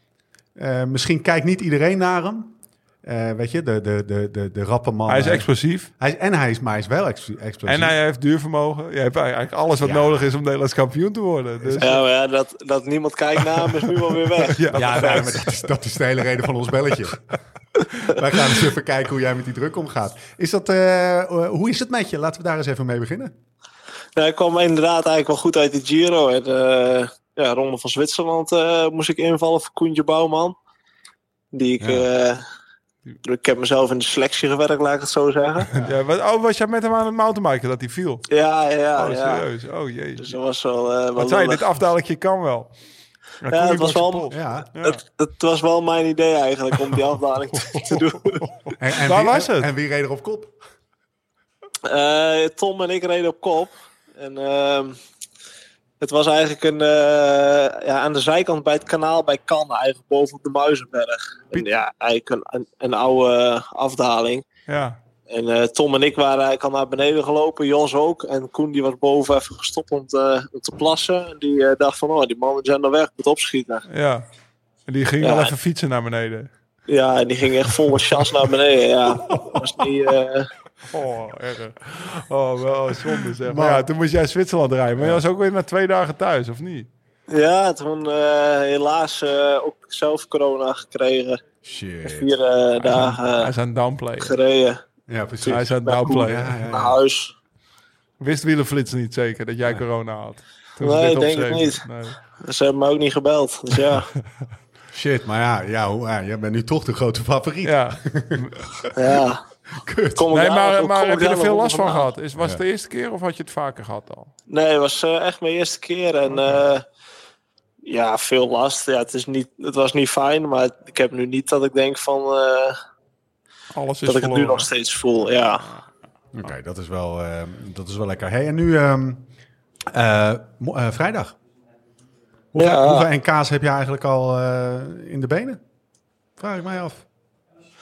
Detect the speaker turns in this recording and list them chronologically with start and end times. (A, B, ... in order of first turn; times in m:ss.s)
0:00.6-0:07.9 A
0:05.1-0:05.9 B
0:07.6-0:12.0 B
0:09.8-0:10.2 A
0:11.6-0:12.0 A
0:11.8-0:15.3 C
0:14.5-0:15.6 B
0:14.7-0:17.3 A
0:18.0-0:23.3 A
0:24.2-0:30.6 C
0:31.5-0:32.4 C
0:31.8-0:32.1 A
0:33.2-0:35.7 C
0:35.8-0:38.2 B
0:38.3-0:39.5 C
0:39.0-0:40.3 B
0:40.2-0:41.6 C
0:41.2-0:42.7 B
0:43.4-0:45.0 B
0:43.5-0:48.4 C
0:44.3-0:44.7 A
0:47.8-0:49.7 B
0:48.8-0:50.5 A
0:51.8-0:55.0 C
0:56.0-1:04.4 C
1:04.7-1:05.0 B
1:05.3-1:13.8 C
1:13.9-1:14.2 B
1:14.9-1:16.5 B
1:15.2-1:15.5 C
1:16.9-1:20.5 C
1:20.8-1:26.9 B
1:23.4-1:23.9 A
1:27.3-1:31.4 C
1:31.6-1:32.3 A
1:32.0-1:33.5 C
1:32.8-1:34.4 B
1:34.2-1:34.8 C
1:35.1-1:37.0 A
1:35.4-1:36.6 B
1:35.5-1:37.3 C
1:38.2-1:42.2 B
1:40.8-1:41.8 C
1:42.4-1:44.1 C
1:44.9-1:49.2 A
1:47.6-1:48.7 B
1:49.0-1:49.4 C
1:49.7-1:50.3 A
1:50.2-1:52.1 C
1:50.3-1:54.3 B
1:52.4-1:52.6 A
1:54.5-1:56.8 C
1:57.8-2:02.8 C
2:03.7-2:04.7 B
2:04.0-2:05.7 C
2:06.3-2:09.2 A
2:09.9-2:11.4 A
2:12.5-2:15.6 A
2:12.6-2:13.1 C
2:16.4-2:17.0 A